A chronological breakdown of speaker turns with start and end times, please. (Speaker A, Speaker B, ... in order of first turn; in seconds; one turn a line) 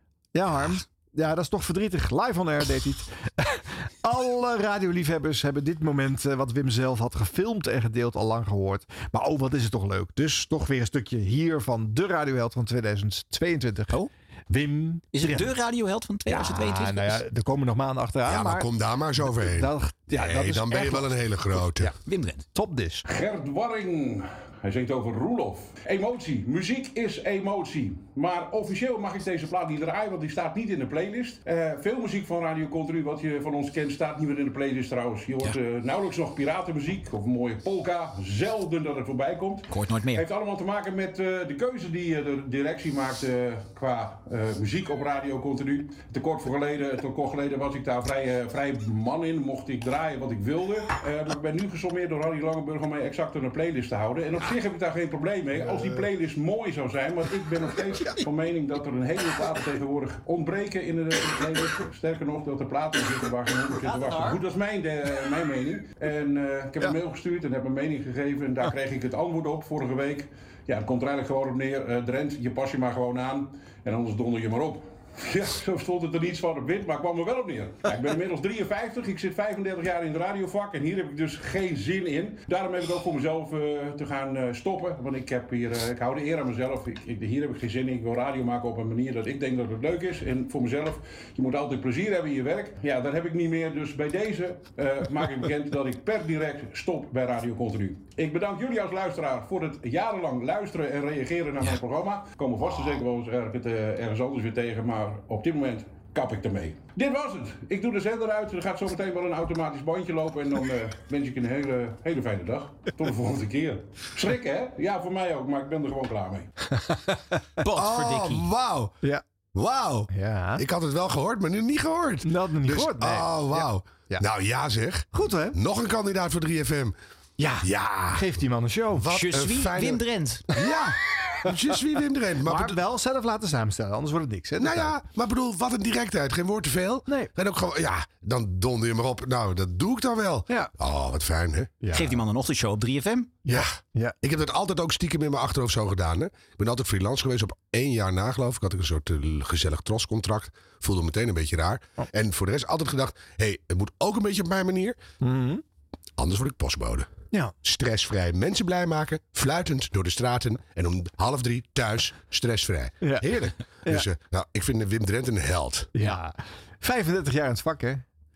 Speaker A: 0.3-15.5
Speaker B: 15.1-17.2
Speaker A: 16.3-21.9
Speaker C: 18.3-21.9
Speaker B: 22.1-22.4
Speaker A: 22.5-23.0
Speaker D: 23.1-116.5
Speaker B: 39.7-40.3
Speaker A: 55.5-56.0
Speaker A: 57.9-58.2
Speaker B: 117.6-118.5
Speaker C: 117.7-119.0
Speaker C: 119.5-126.9
Speaker A: 120.1-120.6
Speaker A: 122.2-124.2
Speaker A: 125.1-125.6
Speaker A: 127.4-129.1
Speaker C: 127.6-128.2
Speaker C: 129.0-132.8
Speaker B: 129.1-130.4
Speaker A: 132.4-135.0
Speaker C: 134.6-141.7
Speaker A: 141.8-142.2
Speaker B: 141.9-143.4
Speaker A: 143.5-144.2
Speaker C: 144.2-155.0
Speaker A: 155.2-155.6
Speaker C: 156.2-157.1
Speaker C: 157.6-165.9
Speaker A: 163.0-164.1
Speaker A: 165.9-168.0